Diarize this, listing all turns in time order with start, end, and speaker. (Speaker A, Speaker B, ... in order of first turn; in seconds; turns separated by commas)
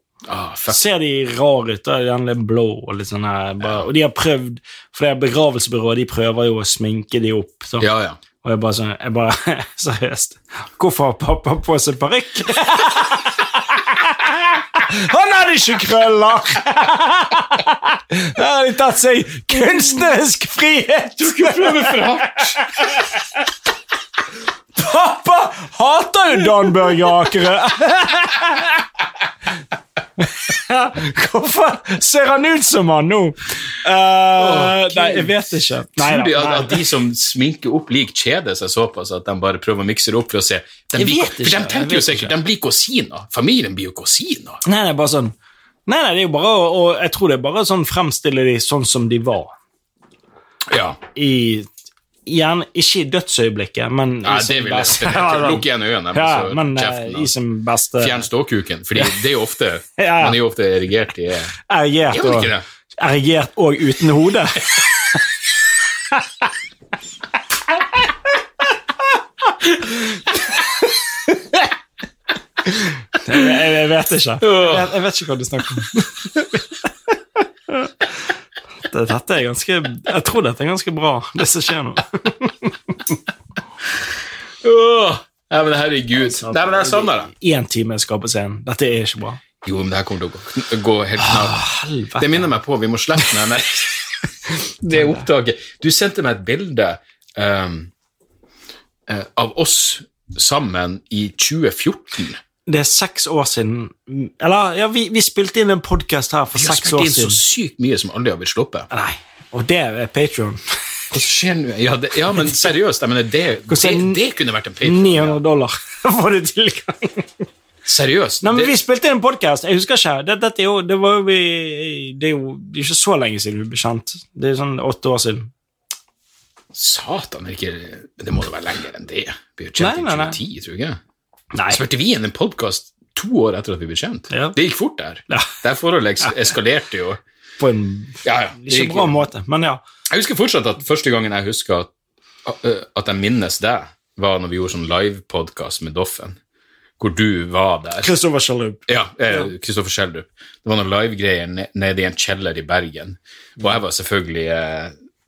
Speaker A: 0.3-0.8, Speaker B: 0.7-7.9, Speaker A: 3.6-3.9, Speaker A: 7.8-8.2, Speaker B: 8.4-23.2, Speaker A: 21.2-22.6, Speaker B: 24.8-28.9, Speaker B: 30.2-36.9, Speaker A: 34.4-35.3, Speaker A: 36.0-44.6, Speaker B: 40.9-42.3, Speaker B: 44.6-45.3, Speaker B: 45.9-49.5, Speaker A: 50.7-51.0, Speaker B: 51.1-51.7, Speaker B: 52.2-58.3, Speaker A: 54.2-57.3, Speaker A: 58.0-61.5, Speaker B: 60.0-60.4, Speaker B: 61.7-65.2, Speaker A: 62.1-62.6, Speaker B: 69.7-70.2, Speaker B: 72.7-76.8, Speaker A: 74.4-74.9, Speaker B: 77.7-78.1, Speaker B: 78.8-83.2, Speaker A: 84.6-87.3, Speaker B: 86.2-89.4, Speaker A: 89.6-91.6, Speaker B: 91.2-92.5, Speaker A: 92.2-94.1, Speaker A: 94.8-97.9, Speaker B: 94.9-95.2, Speaker A: 99.1-102.4, Speaker B: 102.7-107.4, Speaker A: 106.5-108.9, Speaker B: 108.9-110.6, Speaker A: 111.1-115.4, Speaker B: 113.7-114.2, Speaker B: 114.8-117.4, Speaker A: 117.8-118.7, Speaker B: 118.4-125.5, Speaker A: 126.7-131.0, Speaker B: 129.8-130.4, Speaker B: 131.5-131.8, Speaker A: 131.7-137.2, Speaker B: 134.3-134.6, Speaker B: 137.6-139.8, Speaker A: 138.2-139.2, Speaker A: 140.1-141.9, Speaker A: 142.4-146.4, Speaker A: 147.0-148.1, Speaker B: 148.0-149.5, Speaker A: 148.9-154.9